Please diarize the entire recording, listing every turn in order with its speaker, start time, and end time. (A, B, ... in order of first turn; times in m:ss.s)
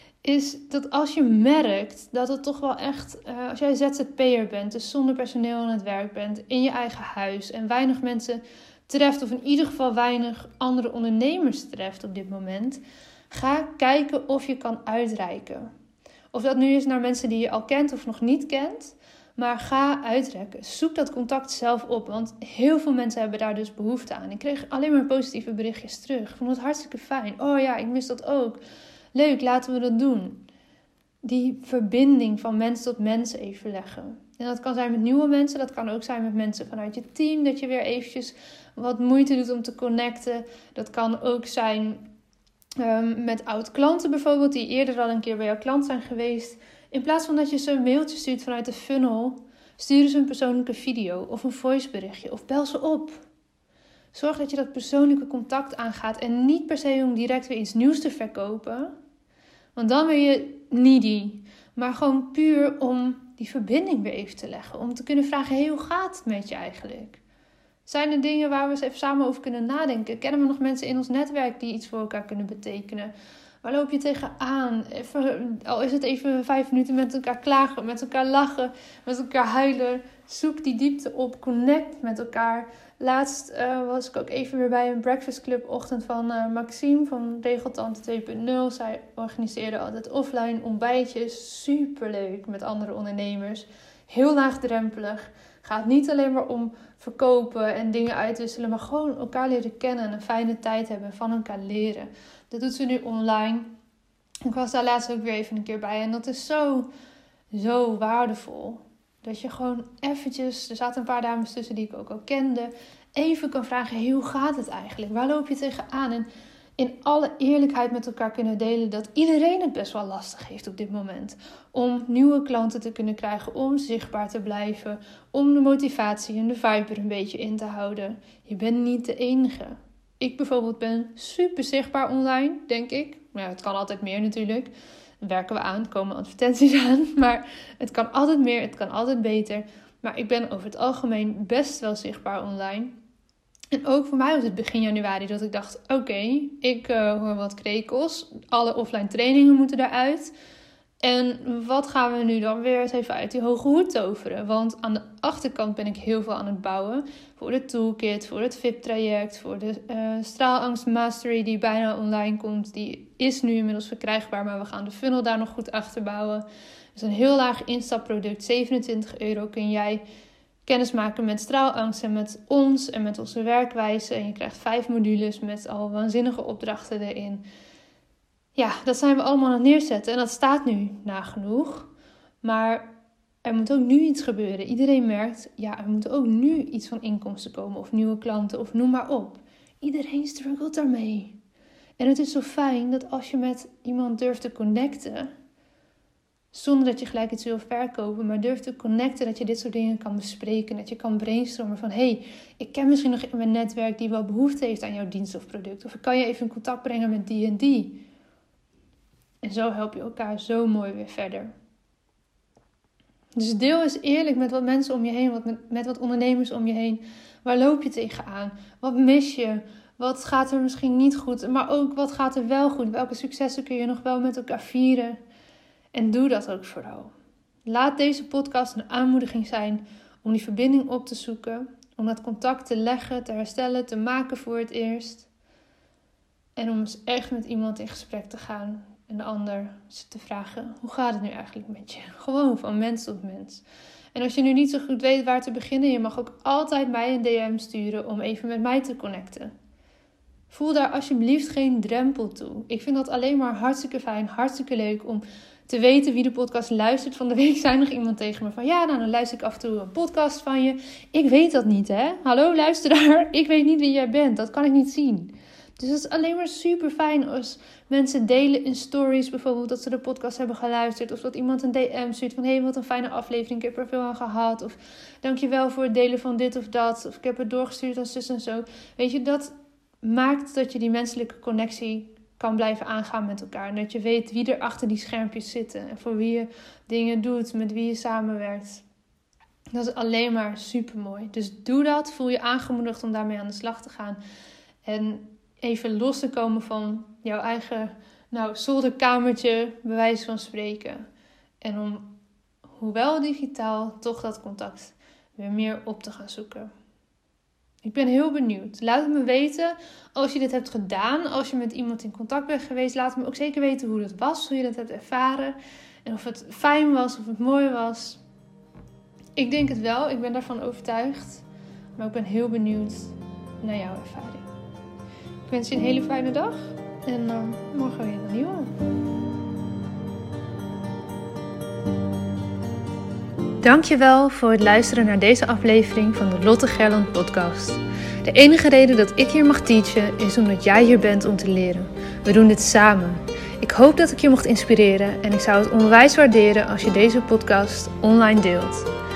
0:00.2-0:15.7 A
0:16.3-0:28.6 A
0:29.1-0:30.5 A
0:31.2-0:42.1 A
0:42.8-0:53.2 A
0:54.1-0:58.9 A
0:59.8-1:07.2 A
1:07.9-1:13.1 A
1:13.6-1:43.7 A
1:44.5-1:46.9 A
1:47.5-2:23.0 A
2:23.7-2:30.3 A
2:31.0-2:50.0 A
2:50.6-2:57.4 A
2:58.6-3:01.9 A
3:02.4-3:02.9 A
3:03.4-3:11.4 A
3:12.0-3:15.3 A
3:16.5-3:28.0 A
3:29.4-3:31.5 A
3:33.4-3:45.2 A
3:45.9-3:47.1 A
3:47.6-3:55.3 A
3:56.6-4:03.6 A
4:04.1-4:09.5 A
4:10.5-4:48.8 A
4:49.7-4:54.2 A
4:54.8-5:01.0 A
5:01.6-5:02.2 A
5:02.8-5:06.7 A
5:07.8-5:18.2 A
5:19.4-5:21.4 A
5:22.0-5:24.5 A
5:25.5-5:28.7 A
5:33.6-5:48.9 A